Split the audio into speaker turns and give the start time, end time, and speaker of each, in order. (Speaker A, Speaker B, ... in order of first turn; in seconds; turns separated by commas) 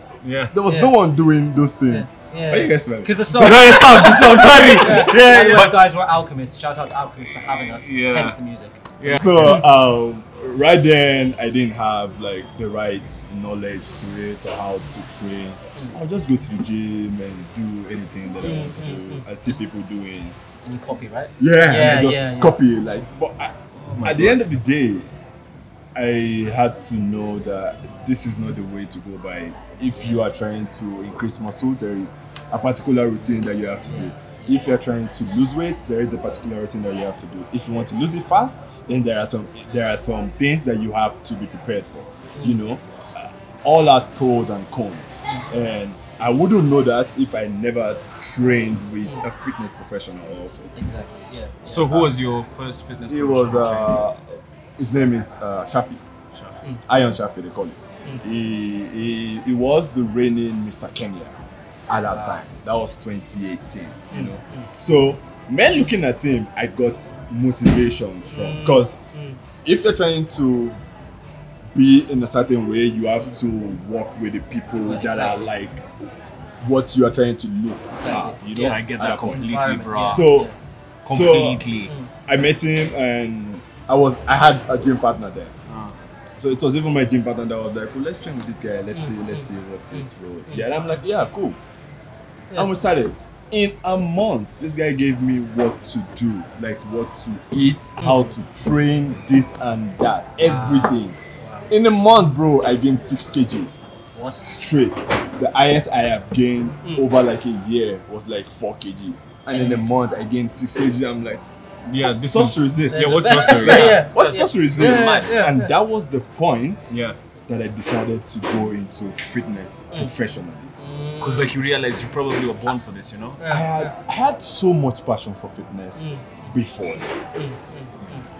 Speaker A: 0.2-0.6, Speaker B: 0.5-5.1, Speaker C: 0.7-0.9, Speaker C: 1.9-9.7, Speaker A: 3.3-5.8, Speaker A: 7.2-8.4, Speaker A: 9.0-9.7, Speaker B: 9.2-20.4, Speaker C: 18.4-19.3, Speaker C: 20.6-22.6, Speaker B: 21.4-25.1, Speaker A: 23.9-24.4, Speaker B: 25.9-50.7, Speaker C: 42.4-42.6, Speaker C: 50.8-52.1, Speaker A: 51.7-54.0, Speaker B: 53.1-56.0, Speaker A: 56.3-56.6, Speaker B: 56.9-61.4, Speaker B: 61.9-69.0, Speaker A: 62.1-62.4, Speaker C: 64.1-64.7, Speaker C: 68.3-69.4, Speaker B: 69.6-70.8, Speaker B: 71.8-75.8, Speaker C: 74.8-75.5, Speaker B: 76.6-79.5, Speaker C: 77.9-80.5, Speaker A: 78.5-80.3, Speaker B: 80.0-80.5, Speaker B: 81.1-81.6, Speaker A: 81.1-81.9, Speaker B: 82.3-85.5, Speaker A: 85.7-86.0, Speaker B: 86.4-91.6, Speaker C: 88.9-90.7, Speaker B: 92.5-101.2, Speaker C: 98.0-98.3, Speaker C: 100.4-101.7, Speaker B: 101.7-103.8, Speaker C: 104.2-104.4, Speaker B: 104.4-111.4, Speaker C: 109.5-109.9, Speaker A: 111.9-115.4, Speaker B: 112.0-120.7, Speaker C: 112.9-115.7, Speaker A: 116.9-117.2, Speaker C: 120.8-121.5, Speaker A: 121.2-123.4, Speaker C: 123.4-123.9, Speaker B: 123.5-127.1, Speaker C: 126.0-126.5, Speaker C: 127.3-128.3